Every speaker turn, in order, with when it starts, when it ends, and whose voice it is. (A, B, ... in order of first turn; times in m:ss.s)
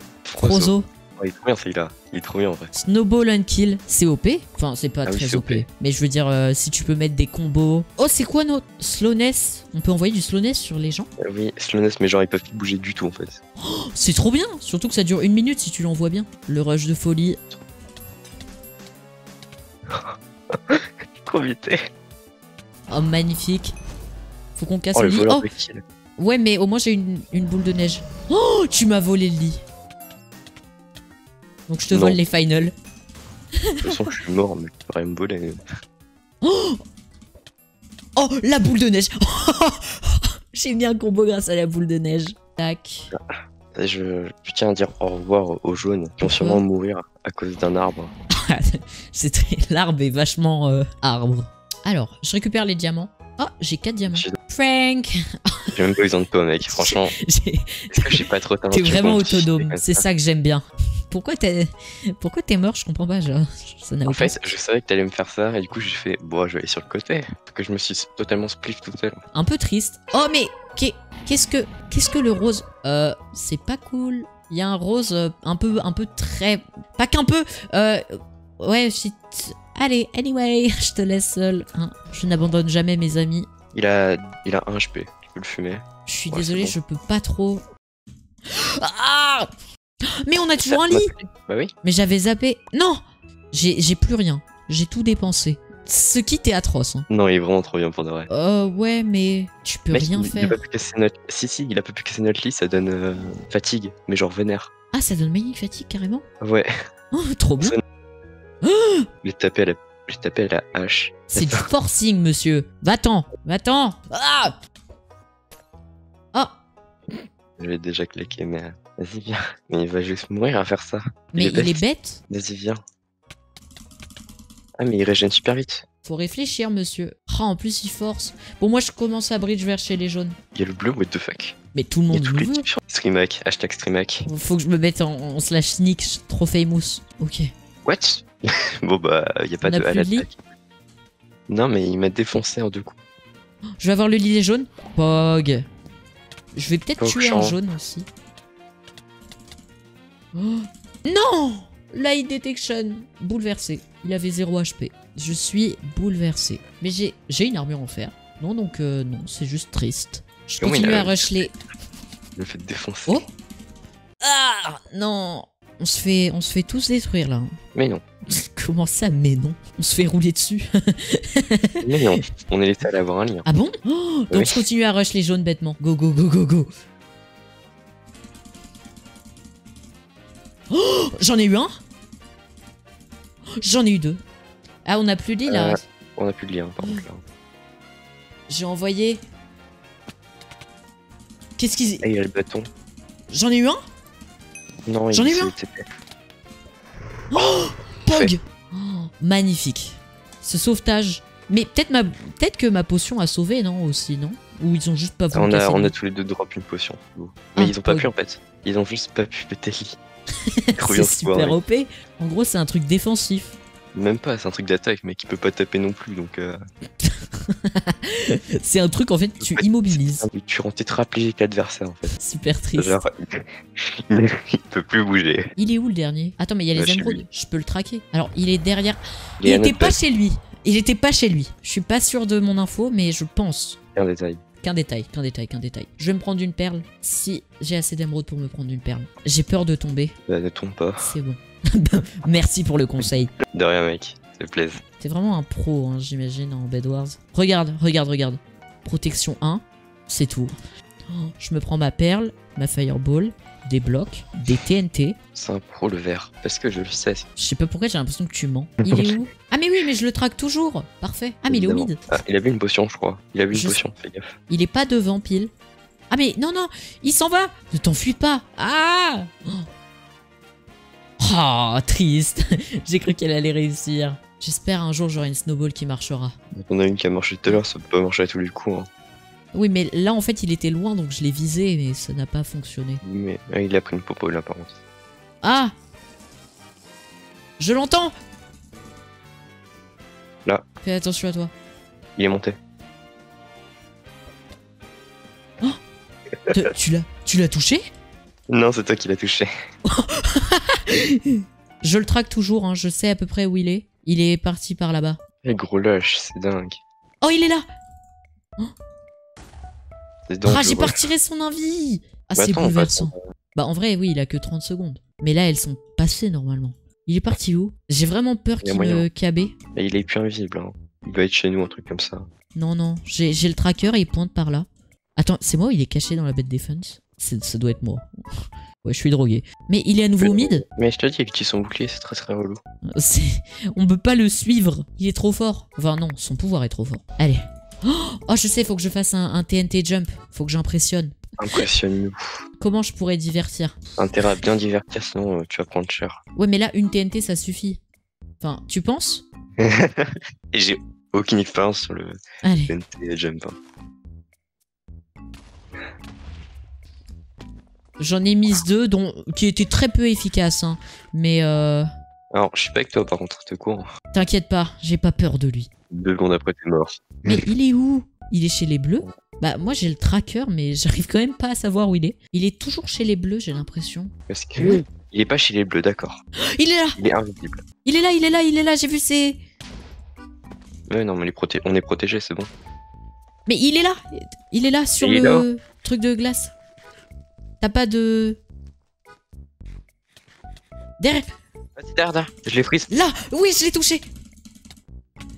0:00.2-0:02.7 A
0:00.4-0:00.9 B
0:02.7-0:11.1 B
0:05.0-0:05.6 A
0:11.2-0:13.4 A
0:13.6-0:17.4 B
0:19.9-0:21.8 A
0:22.9-0:23.8 B
0:24.6-0:25.5 B
0:25.0-0:25.8 A
0:26.2-0:29.6 B
0:31.7-0:32.7 B
0:31.9-0:32.2 A
0:33.6-0:34.0 B
0:33.8-0:35.6 A
0:36.4-0:36.8 B
0:38.2-0:43.1 B
0:43.8-0:48.1 A
0:46.2-0:46.6 B
0:48.3-0:55.6 B
0:54.1-0:54.4 A
0:55.8-0:57.1 A
0:56.7-1:04.5 B
0:57.9-1:00.0 A
1:04.1-1:09.2 A
1:09.3-1:18.1 B
1:18.6-1:23.5 B
1:23.7-1:26.8 A
1:26.1-1:27.6 B
1:28.5-1:29.5 B
1:30.2-1:31.1 B
1:30.6-1:31.7 A
1:31.8-1:33.0 B
1:33.5-1:37.1 B
1:37.1-1:38.3 A
1:38.3-1:40.6 B
1:39.9-1:44.7 A
1:44.9-1:46.2 B
1:46.4-1:46.7 A
1:47.1-1:47.8 B
1:48.6-1:49.1 B
1:49.2-1:51.7 A
1:51.3-1:54.6 B
1:57.6-2:02.8 A
2:01.3-2:02.2 B
2:04.8-2:05.8 A
2:06.0-2:10.4 B
2:10.6-2:11.6 A
2:11.7-2:12.7 B
2:12.1-2:14.3 A
2:14.3-2:17.5 B
2:17.8-2:20.4 A
2:19.6-2:20.3 B
2:21.5-2:23.0 A
2:23.8-2:25.6 B
2:26.6-2:28.1 B
2:27.0-2:27.6 A
2:30.4-2:41.6 B
2:40.6-2:41.3 A
2:42.4-2:43.2 A
2:44.2-2:47.5 B
2:47.8-2:48.0 A
2:48.3-2:51.8 B
2:51.8-2:53.5 A
2:53.5-2:56.7 B
2:54.3-2:54.6 A
3:00.7-3:01.7 B
3:03.6-3:04.2 B
3:04.8-3:05.8 B
3:05.5-3:07.2 A
3:08.5-3:09.2 B
3:11.6-3:12.0 B
3:12.0-3:12.7 A
3:13.3-3:13.8 B
3:14.9-3:15.8 A
3:15.1-3:15.5 B
3:17.3-3:25.9 B
3:18.1-3:18.3 A
3:25.3-3:30.0 A
3:27.6-3:28.1 B
3:30.7-3:33.6 B
3:30.8-3:31.6 A
3:33.9-3:36.6 A
3:37.0-3:40.3 B
3:40.2-3:42.1 A
3:42.2-3:43.0 B
3:42.8-3:45.5 A
3:45.6-3:53.8 B
3:46.8-3:47.2 A
3:49.4-3:50.0 A
3:54.0-3:54.4 A
3:54.6-4:00.2 B
4:00.3-4:01.1 A
4:01.0-4:03.3 B
4:03.5-4:04.8 A
4:05.0-4:10.5 B
4:11.1-4:15.2 B
4:15.4-4:17.3 A
4:17.4-4:22.0 B
4:18.8-4:19.2 A
4:21.5-4:24.3 A
4:23.5-4:23.8 B
4:24.5-4:25.5 B
4:26.1-4:29.7 B
4:31.2-4:36.4 B
4:36.5-4:38.9 A
4:39.5-4:43.0 B
4:43.0-4:44.8 A
4:45.4-4:45.7 B
4:47.6-4:48.1 B
4:50.8-4:51.5 B
4:52.2-4:52.6 A
4:56.5-4:57.8 B
4:58.5-4:59.5 A
4:59.9-5:05.2 B
5:05.4-5:06.8 A
5:07.2-5:07.6 B
5:10.3-5:11.0 A
5:10.4-5:19.5 B
5:12.4-5:13.1 A
5:18.6-5:19.1 A
5:19.8-5:22.3 A
5:22.6-5:30.6 B
5:30.2-5:32.6 A
5:33.0-5:41.2 B
5:41.4-5:42.4 A
5:42.6-5:43.8 B
5:44.0-5:46.2 A
5:46.4-5:47.8 B
5:48.4-5:49.2 B
5:49.6-5:52.2 A
5:52.4-5:52.8 B
5:52.7-5:53.6 A
5:58.0-6:01.9 B
6:02.3-6:03.9 A
6:04.1-6:05.7 B
6:05.9-6:07.5 A
6:07.3-6:14.8 B
6:14.3-6:16.2 A
6:16.6-6:17.0 B
6:17.0-6:17.6 A
6:17.8-6:19.4 B
6:20.9-6:22.5 A
6:23.5-6:26.5 B
6:25.0-6:25.5 A
6:27.6-6:28.4 B
6:31.0-6:31.3 B
6:31.8-6:32.9 A
6:32.9-6:34.0 B